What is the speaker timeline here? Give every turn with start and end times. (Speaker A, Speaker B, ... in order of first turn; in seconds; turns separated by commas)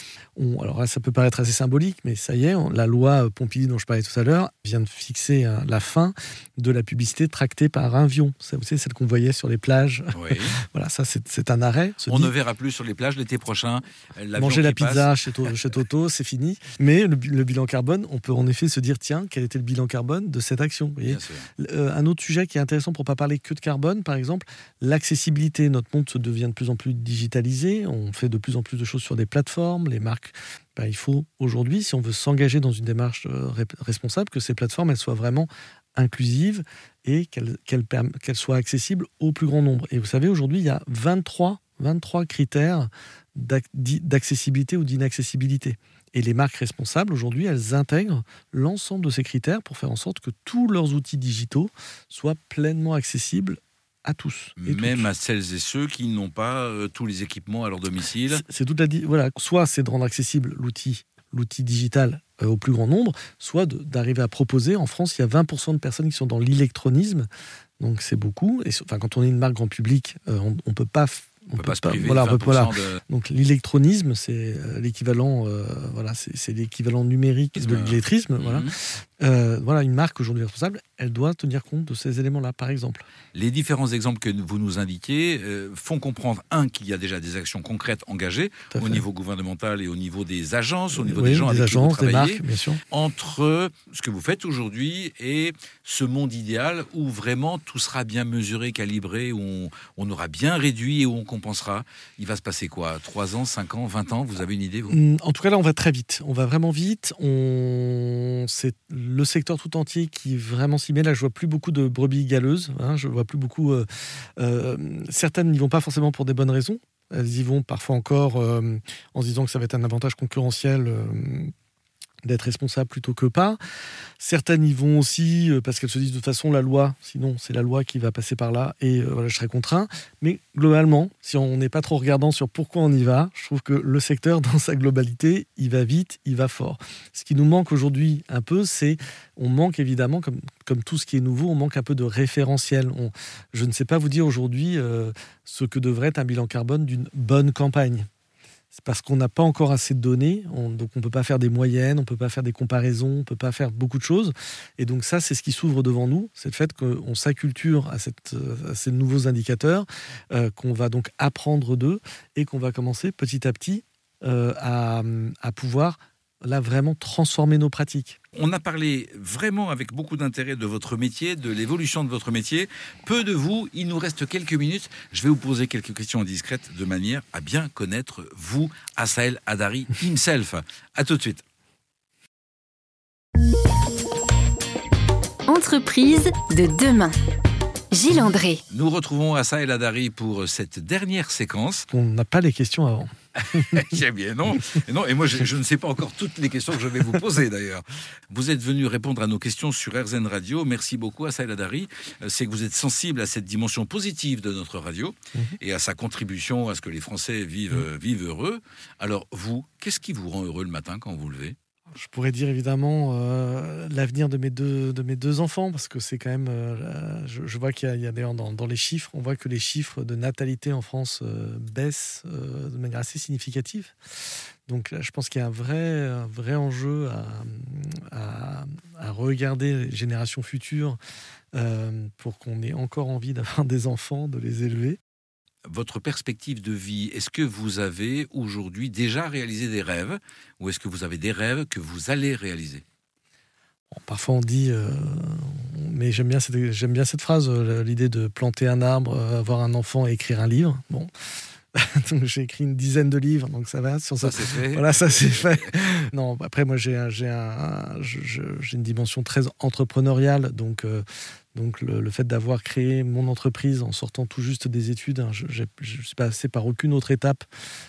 Speaker A: 0.3-12.3, Speaker B: 10.1-10.6, Speaker B: 12.1-15.1, Speaker A: 14.3-55.1, Speaker B: 21.1-21.5, Speaker B: 54.6-58.4, Speaker A: 58.3-67.3, Speaker A: 67.8-83.0, Speaker B: 71.6-73.0, Speaker B: 77.5-78.7, Speaker B: 83.3-105.0, Speaker A: 88.7-89.0, Speaker A: 90.9-92.8, Speaker A: 104.9-113.9, Speaker A: 114.4-121.5, Speaker A: 122.2-123.6, Speaker A: 124.2-148.1, Speaker A: 148.7-168.2, Speaker B: 168.3-181.4, Speaker C: 185.5-187.1, Speaker C: 187.9-188.6, Speaker B: 188.7-191.9, Speaker A: 191.9-193.8, Speaker B: 193.4-211.6, Speaker A: 211.9-223.9, Speaker A: 224.7-231.0, Speaker A: 231.5-235.0, Speaker B: 235.7-242.8, Speaker A: 243.9-251.1, Speaker A: 251.7-267.4, Speaker B: 254.2-255.7